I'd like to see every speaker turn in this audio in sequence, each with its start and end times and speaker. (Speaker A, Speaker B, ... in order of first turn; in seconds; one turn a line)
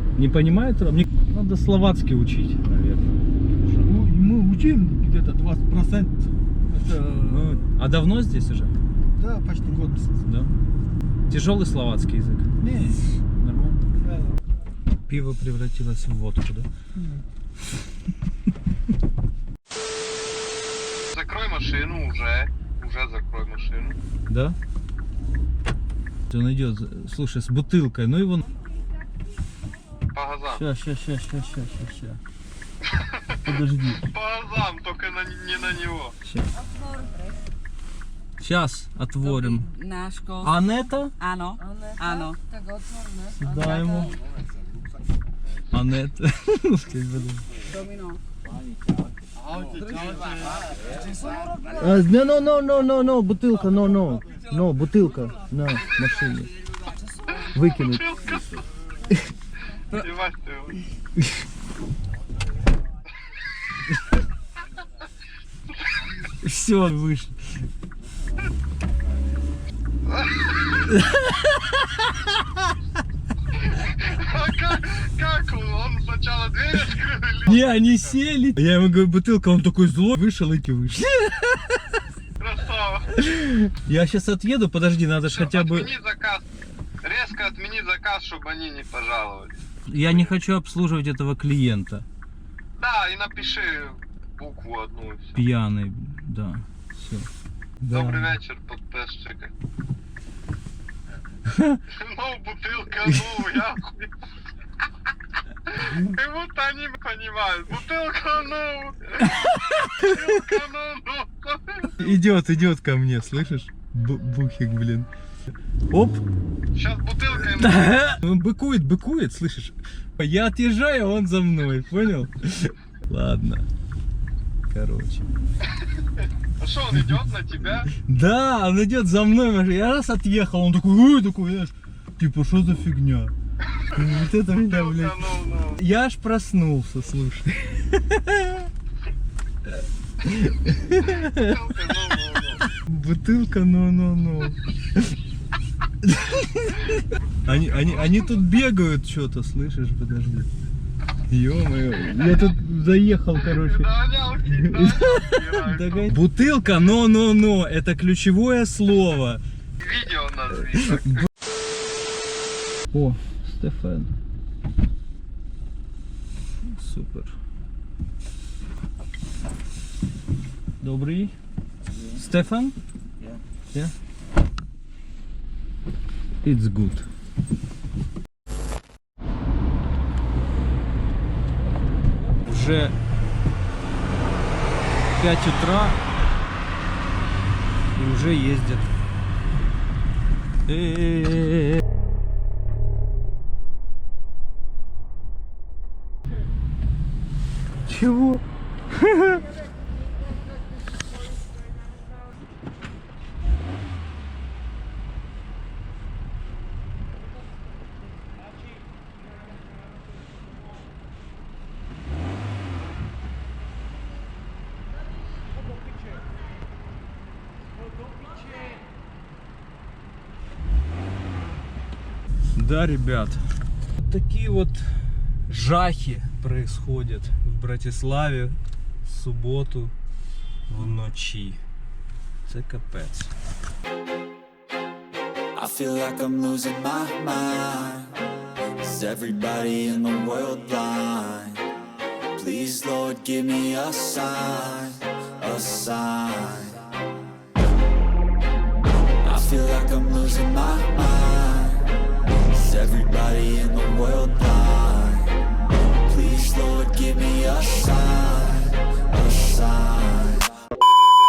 Speaker A: 0.2-4.0
Speaker B: 3.8-7.7
Speaker A: 7.2-8.8
Speaker B: 9.2-10.2
Speaker A: 10.2-10.5
Speaker A: 11.3-12.5
Speaker B: 12.6-13.1
Speaker A: 13.4-13.8
Speaker B: 14.0-14.3
Speaker A: 15.1-16.7
Speaker C: 21.1-24.0
Speaker A: 24.3-24.6
Speaker A: 26.3-28.5
Speaker C: 30.1-30.6
Speaker A: 30.5-32.2
Speaker A: 33.5-34.0
Speaker C: 34.1-36.1
Speaker A: 36.2-36.5
Speaker D: 36.7-37.3
Speaker A: 38.4-39.7
Speaker D: 39.2-40.5
Speaker A: 40.4-41.1
Speaker D: 41.2-44.1
Speaker A: 43.4-44.1
Speaker A: 45.7-47.5
Speaker D: 47.7-48.2
Speaker A: 51.8-56.5
Speaker A: 57.5-58.6
Speaker C: 57.6-58.5
Speaker C: 59.9-60.8
Speaker A: 66.4-67.4
Speaker C: 70.1-70.6
Speaker A: 70.9-72.2
Speaker C: 74.0-77.9
Speaker A: 77.5-81.8
Speaker C: 82.4-83.1
Speaker A: 83.2-86.0
Speaker C: 85.2-86.5
Speaker C: 87.0-90.3
Speaker A: 89.9-92.1
Speaker C: 92.8-95.4
Speaker A: 95.3-97.3
Speaker A: 97.8-98.4
Speaker C: 97.9-99.5
Speaker A: 101.5-101.8
Speaker C: 101.9-104.1
Speaker C: 105.8-109.2
Speaker A: 109.4-110.3
Speaker C: 110.0-112.2
Speaker A: 112.0-115.1
Speaker A: 115.9-116.2
Speaker C: 116.8-118.0
Speaker A: 117.4-123.7
Speaker A: 124.7-125.3
Speaker C: 126.6-127.9
Speaker A: 126.9-127.2
Speaker A: 127.9-133.3
Speaker A: 133.9-135.2
Speaker C: 134.6-135.8
Speaker A: 135.8-138.7
Speaker A: 140.2-142.1
Speaker C: 141.2-142.6
Speaker A: 142.7-145.1
Speaker A: 146.0-150.5
Speaker C: 147.5-148.4
Speaker A: 151.3-159.4
Speaker C: 153.3-156.1
Speaker C: 159.8-161.1
Speaker A: 160.8-161.2
Speaker A: 162.9-164.2
Speaker A: 166.6-167.3
Speaker A: 170.8-171.3
Speaker A: 172.2-172.8
Speaker A: 176.4-177.1
Speaker A: 182.5-182.9
Speaker A: 185.2-186.0
Speaker A: 188.0-188.9
Speaker A: 190.7-191.8
Speaker A: 197.9-199.4
Speaker A: 222.6-223.4
Speaker A: 224.0-224.9
Speaker A: 225.5-229.9
Speaker A: 230.7-231.6
Speaker A: 232.5-233.3
Speaker E: 235.6-238.1
Speaker E: 238.8-241.6
Speaker E: 242.3-246.8
Speaker E: 249.2-251.8
Speaker E: 252.5-255.3
Speaker E: 256.0-260.5